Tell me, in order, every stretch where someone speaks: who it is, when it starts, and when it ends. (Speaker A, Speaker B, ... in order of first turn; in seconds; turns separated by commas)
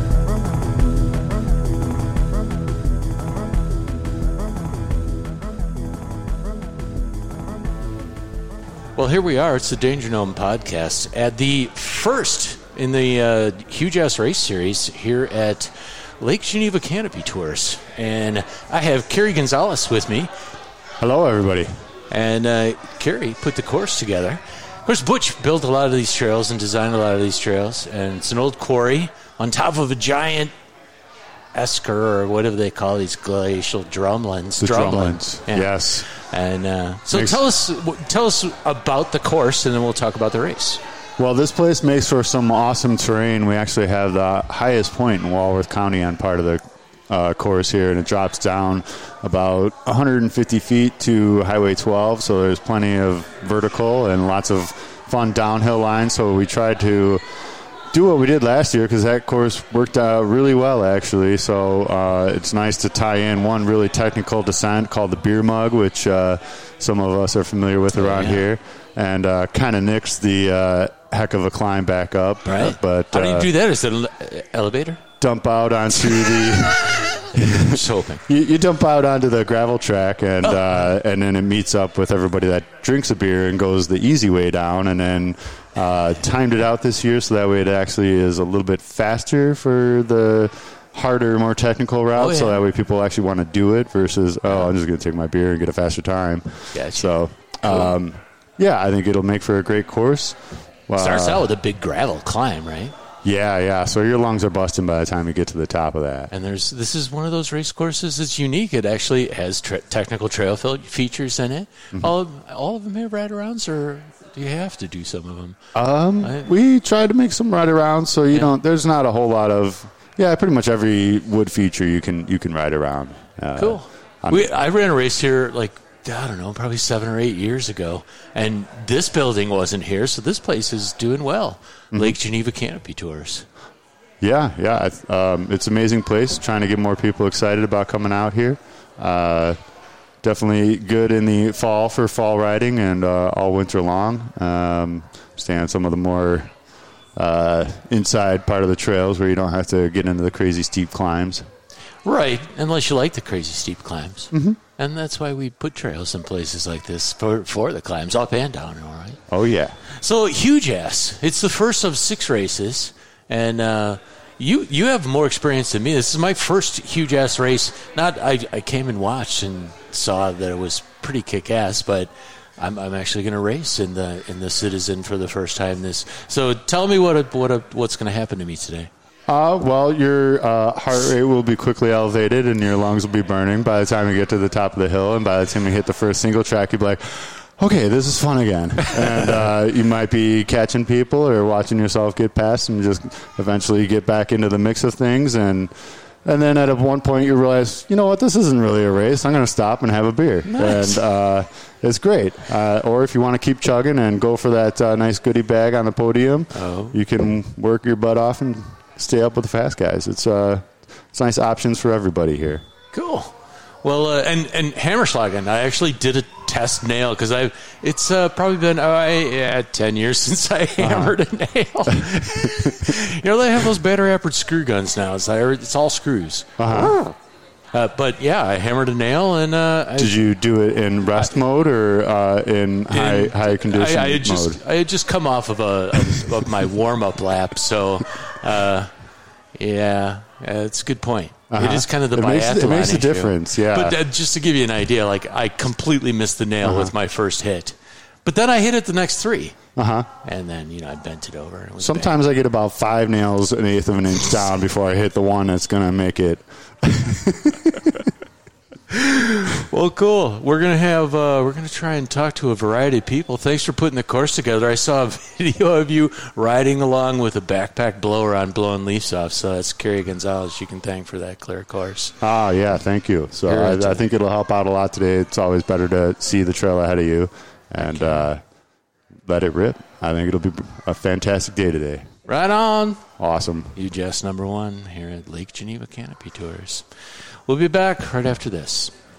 Speaker A: 9.0-20.3, Speaker B: 21.0-21.7, Speaker A: 22.1-30.5, Speaker A: 31.5-40.8, Speaker B: 34.6-36.1, Speaker B: 37.1-37.4, Speaker B: 41.2-57.2, Speaker B: 57.9-73.5, Speaker A: 67.9-68.5, Speaker A: 72.5-75.0, Speaker B: 75.2-101.5, Speaker A: 77.5-78.2, Speaker A: 80.4-80.9, Speaker A: 92.2-92.6, Speaker A: 96.7-97.1, Speaker A: 97.6-97.9, Speaker A: 101.0-103.0, Speaker B: 103.2-106.3, Speaker A: 106.3-115.6, Speaker B: 115.8-124.5, Speaker A: 116.2-116.5, Speaker A: 123.6-133.5, Speaker B: 134.2-139.6, Speaker B: 140.2-146.5, Speaker B: 147.2-151.4, Speaker A: 152.1-159.2, Speaker B: 154.3-154.6, Speaker B: 159.3-159.8, Speaker A: 159.9-178.9, Speaker B: 179.3-195.7, Speaker B: 196.2-212.6, Speaker A: 200.5-201.0, Speaker A: 206.5-207.0, Speaker A: 212.9-227.1, Speaker B: 220.8-221.2, Speaker B: 221.9-222.9, Speaker B: 226.6-227.0, Speaker A: 227.7-230.2, Speaker B: 230.0-234.6, Speaker A: 232.9-238.9, Speaker A: 239.6-249.6, Speaker B: 241.5-244.0, Speaker B: 246.6-246.9, Speaker B: 249.8-250.1, Speaker A: 250.2-252.2, Speaker B: 251.8-258.1, Speaker A: 258.9-272.1, Speaker B: 272.2-278.4, Speaker A: 273.5-274.1, Speaker A: 277.8-278.2, Speaker B: 279.3-282.1, Speaker A: 282.3-283.0, Speaker B: 283.2-283.7, Speaker A: 283.8-286.8, Speaker A: 287.5-288.9